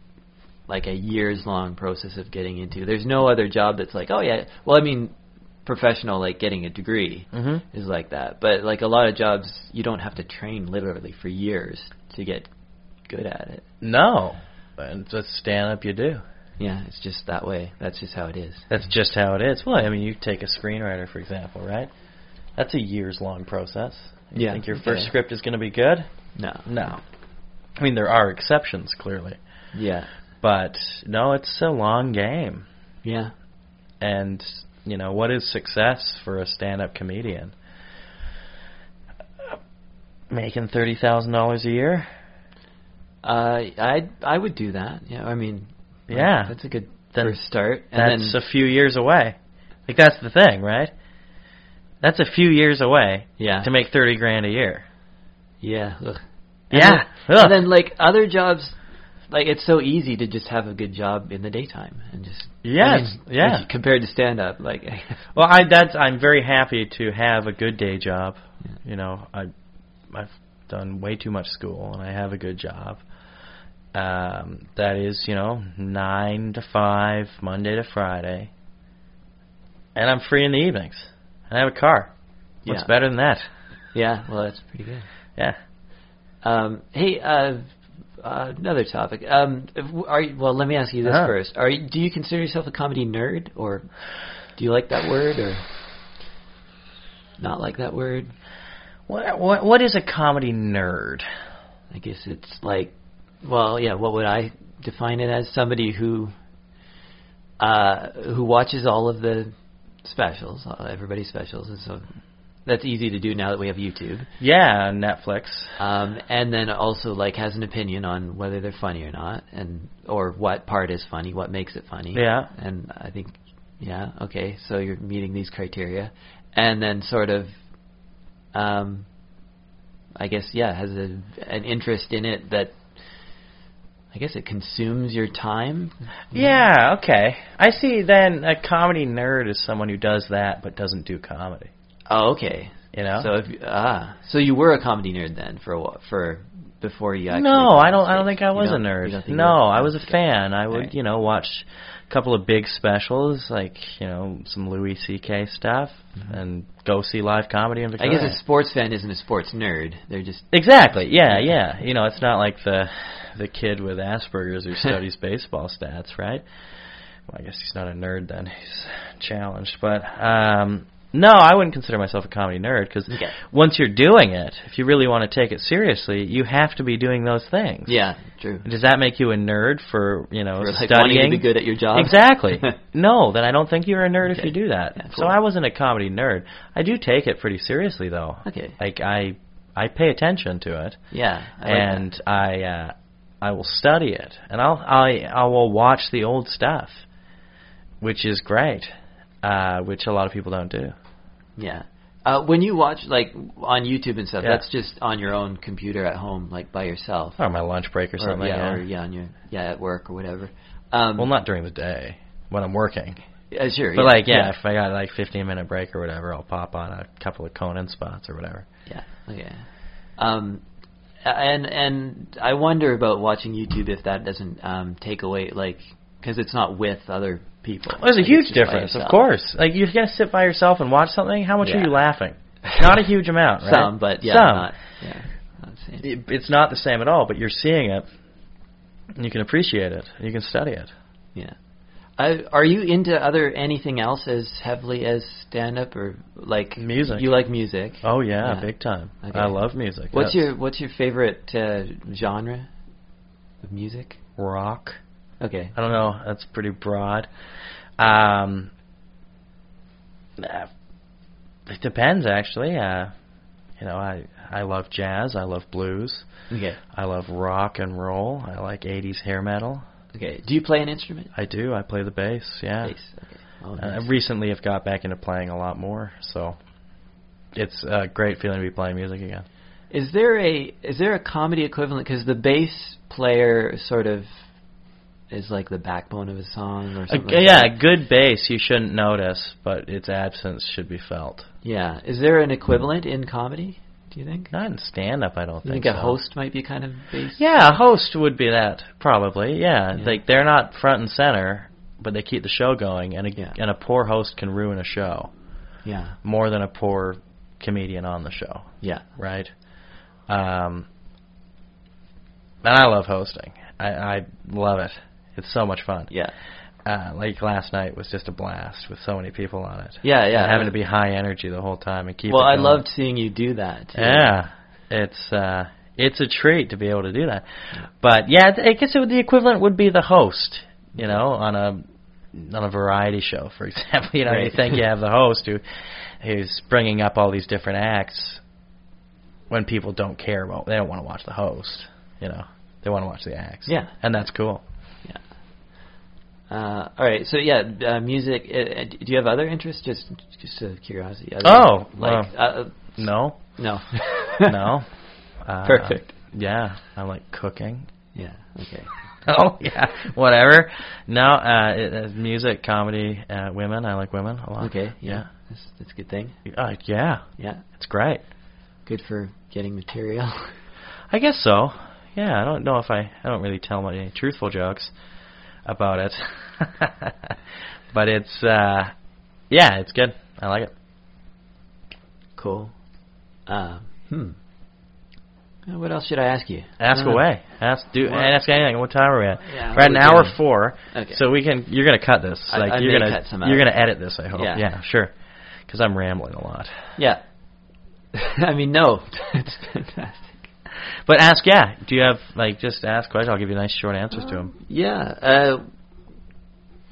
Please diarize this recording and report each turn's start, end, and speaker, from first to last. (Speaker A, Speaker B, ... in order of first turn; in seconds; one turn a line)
Speaker A: 0.7-5.1
Speaker A: 5.6-12.5
Speaker B: 7.3-7.6
Speaker A: 13.1-13.6
Speaker B: 13.8-16.2
Speaker A: 16.6-18.7
Speaker B: 18.7-21.9
Speaker B: 22.6-26.1
Speaker A: 24.3-25.1
Speaker A: 26.3-26.7
Speaker B: 26.6-27.0
Speaker B: 27.8-29.4
Speaker A: 29.7-30.1
Speaker B: 30.4-32.6
Speaker A: 33.0-33.3
Speaker B: 34.0-37.5
Speaker B: 40.3-42.1
Speaker A: 43.2-48.4
Speaker B: 46.1-46.5
Speaker B: 47.9-50.9
Speaker B: 52.0-54.8
Speaker A: 53.4-53.7
Speaker A: 55.6-58.8
Speaker B: 56.7-57.6
Speaker A: 59.3-65.2
Speaker B: 62.6-63.6
Speaker B: 65.3-69.5
Speaker B: 70.1-73.0
Speaker B: 73.9-78.5
Speaker B: 79.9-82.1
Speaker A: 82.6-82.9
Speaker B: 82.7-83.5
Speaker A: 83.9-85.1
Speaker A: 86.4-93.9
Speaker B: 91.0-91.3
Speaker A: 94.5-95.6
Speaker A: 97.4-98.3
Speaker B: 99.1-101.3
Speaker A: 101.9-106.3
Speaker A: 107.6-109.5
Speaker A: 110.0-112.1
Speaker A: 112.7-114.3
Speaker B: 114.4-115.8
Speaker A: 115.8-127.5
Speaker B: 122.1-122.5
Speaker A: 128.5-129.1
Speaker A: 130.2-132.8
Speaker A: 134.1-136.6
Speaker B: 136.3-141.7
Speaker A: 142.1-150.2
Speaker B: 142.9-143.3
Speaker B: 147.3-158.4
Speaker A: 158.0-160.5
Speaker B: 160.5-166.4
Speaker A: 161.2-161.5
Speaker B: 167.3-178.0
Speaker A: 177.9-178.7
Speaker B: 178.6-191.0
Speaker A: 180.6-182.8
Speaker A: 184.3-185.3
Speaker A: 188.4-188.7
Speaker A: 191.1-192.1
Speaker B: 191.6-197.0
Speaker B: 198.0-198.9
Speaker B: 199.4-200.9
Speaker A: 201.6-207.4
Speaker B: 207.4-208.8
Speaker A: 208.2-211.3
Speaker B: 211.2-213.2
Speaker A: 213.5-214.5
Speaker B: 213.9-218.7
Speaker A: 218.9-220.6
Speaker A: 221.2-229.3
Speaker B: 227.9-234.7
Speaker A: 231.6-231.9
Speaker A: 233.6-236.1
Speaker B: 236.0-238.1
Speaker B: 239.1-240.9
Speaker A: 242.2-248.7
Speaker B: 246.8-247.2
Speaker B: 248.0-250.5
Speaker A: 249.2-249.6
Speaker A: 250.1-252.7
Speaker A: 253.6-254.2
Speaker B: 254.4-255.0
Speaker A: 255.4-255.7
Speaker B: 255.7-257.3
Speaker B: 258.0-258.7
Speaker B: 260.4-260.7
Speaker B: 261.6-263.1
Speaker B: 263.8-266.3
Speaker A: 266.5-266.8
Speaker B: 266.9-269.8
Speaker A: 270.1-271.3
Speaker B: 271.3-272.9
Speaker A: 272.8-274.1
Speaker B: 273.8-276.6
Speaker B: 277.5-279.4
Speaker A: 279.9-284.3
Speaker A: 285.3-287.7
Speaker B: 287.1-291.5
Speaker A: 291.6-294.5
Speaker B: 294.5-296.1
Speaker A: 295.6-297.8
Speaker B: 297.4-305.3
Speaker A: 305.8-306.2
Speaker B: 306.2-309.5
Speaker B: 310.3-310.9
Speaker B: 312.6-316.1
Speaker B: 316.8-322.8
Speaker A: 320.0-320.7
Speaker A: 322.3-324.3
Speaker B: 323.9-338.4
Speaker A: 334.3-334.8
Speaker B: 339.5-344.6
Speaker A: 343.6-343.9
Speaker A: 346.5-352.9
Speaker B: 351.4-352.3
Speaker B: 352.9-353.4
Speaker A: 353.6-354.6
Speaker B: 354.4-354.9
Speaker B: 355.4-357.9
Speaker A: 355.6-356.1
Speaker A: 358.1-358.9
Speaker B: 359.2-365.2
Speaker A: 364.6-366.4
Speaker B: 366.4-368.2
Speaker A: 367.4-367.6
Speaker A: 368.9-370.6
Speaker B: 371.1-374.9
Speaker B: 375.6-377.4
Speaker B: 377.9-378.9
Speaker B: 379.5-380.7
Speaker A: 382.4-382.7
Speaker A: 383.5-384.4
Speaker A: 385.7-387.2
Speaker B: 386.8-395.1
Speaker A: 388.0-388.3
Speaker A: 389.4-390.4
Speaker A: 390.9-391.2
Speaker A: 392.5-393.7
Speaker A: 394.3-394.6
Speaker B: 395.7-396.8
Speaker A: 398.1-400.5
Speaker B: 401.1-404.5
Speaker A: 404.5-405.6